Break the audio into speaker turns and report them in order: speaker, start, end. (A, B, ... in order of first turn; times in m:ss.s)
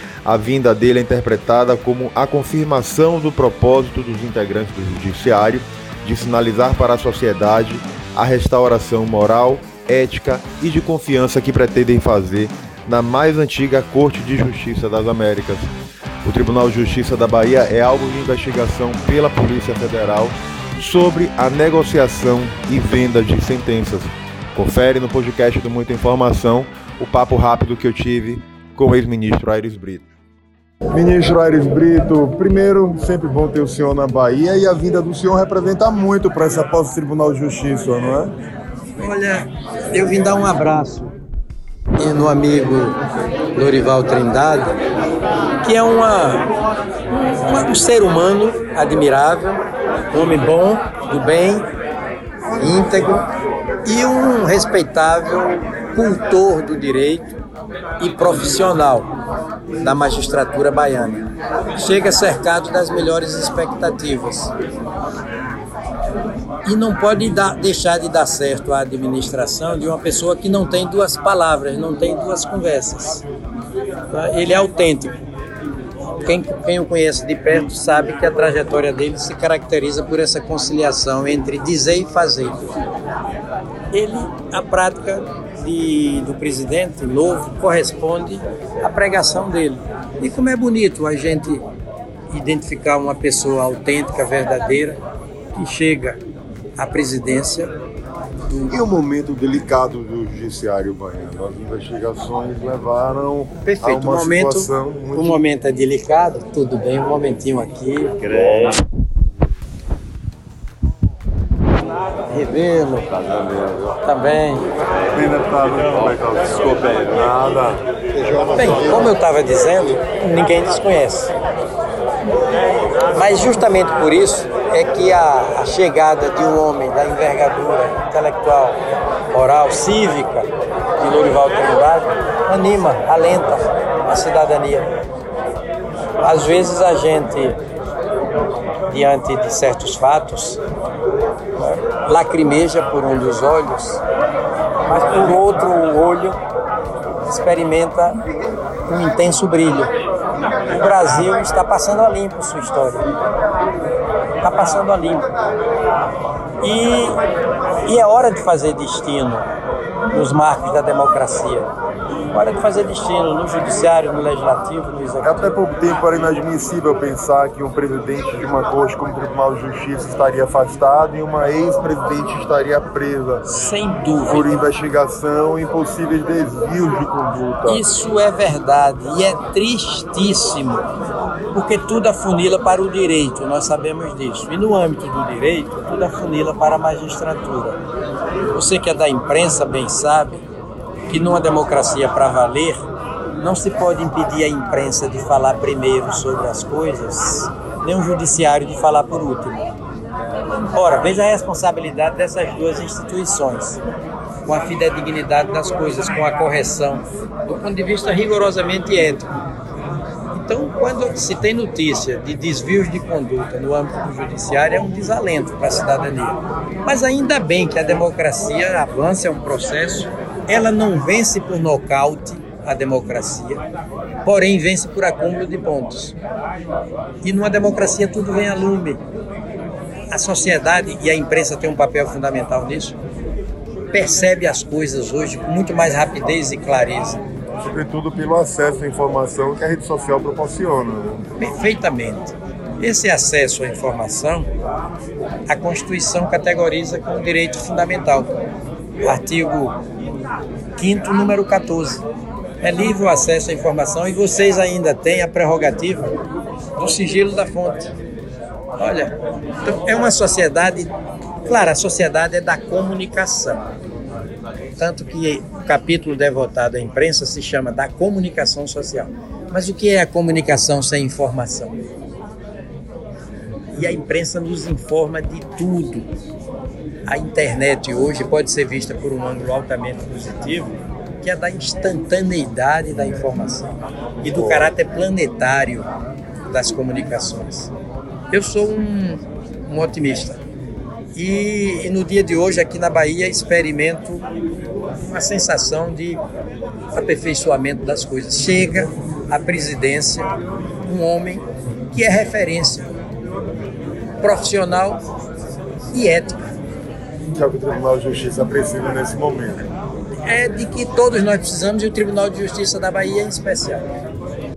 0:00.2-0:15.7 A
0:16.2-0:30.1 A
0:30.9-0:38.3 A
0:39.0-0:41.2 B
0:42.0-0:43.0 B
0:43.5-0:44.8 B
0:45.6-0:46.5 B
0:47.1-0:51.7 B
0:52.6-0:53.2 B
0:53.8-0:57.4 B
0:58.0-0:59.1 B
0:59.8-1:04.5 B
1:06.6-1:13.2 B
1:14.1-1:15.2 B
1:16.2-1:22.6 B
1:23.9-1:31.6 B
1:32.3-1:35.0 B
1:35.6-1:36.2 B
1:36.8-1:37.7 B
1:38.7-1:45.3 A
1:43.6-1:48.7 B
1:52.3-1:54.7 B
1:55.2-1:58.5 A
1:58.5-2:01.3 B
2:03.1-2:14.9 B
2:16.2-2:17.6 B
2:18.9-2:20.6 B
2:21.6-2:24.0 B
2:24.9-2:26.4 B
2:27.3-2:28.2 B
2:28.9-2:29.9 B
2:30.7-2:33.1 B
2:34.4-2:35.3 B
2:36.6-2:37.2 B
2:37.8-2:39.5 B
2:40.1-2:41.7 B
2:42.3-2:45.5 B
2:45.2-2:53.4 A
2:53.5-2:54.6 B
2:54.3-2:57.8 A
2:57.7-3:00.9 B
3:01.5-3:07.8 B
3:08.5-3:10.4 B
3:11.1-3:12.8 B
3:13.4-3:19.7 B
3:20.7-3:23.8 B
3:24.4-3:29.3 B
3:30.3-3:43.6 B
3:44.2-3:46.2 B
3:47.2-3:49.0 B
3:50.1-3:53.0 B
3:53.9-3:57.2 B
3:57.6-4:01.2 A
4:01.4-4:04.5 B
4:05.5-4:08.4 B
4:09.0-4:09.8 B
4:10.8-4:12.1 B
4:12.6-4:16.1 B
4:16.8-4:17.9 B
4:18.8-4:23.6 B
4:24.8-4:31.8 B
4:33.8-4:36.1 B
4:37.1-4:45.9 B
4:46.5-4:47.7 B
4:48.3-4:50.4 B
4:51.2-4:54.3 B
4:55.0-4:56.2 B
4:56.9-5:00.3 B
5:00.8-5:02.9 B
5:04.2-5:05.0 B
5:05.9-5:06.4 B
5:07.3-5:09.6 A
5:10.3-5:13.8 B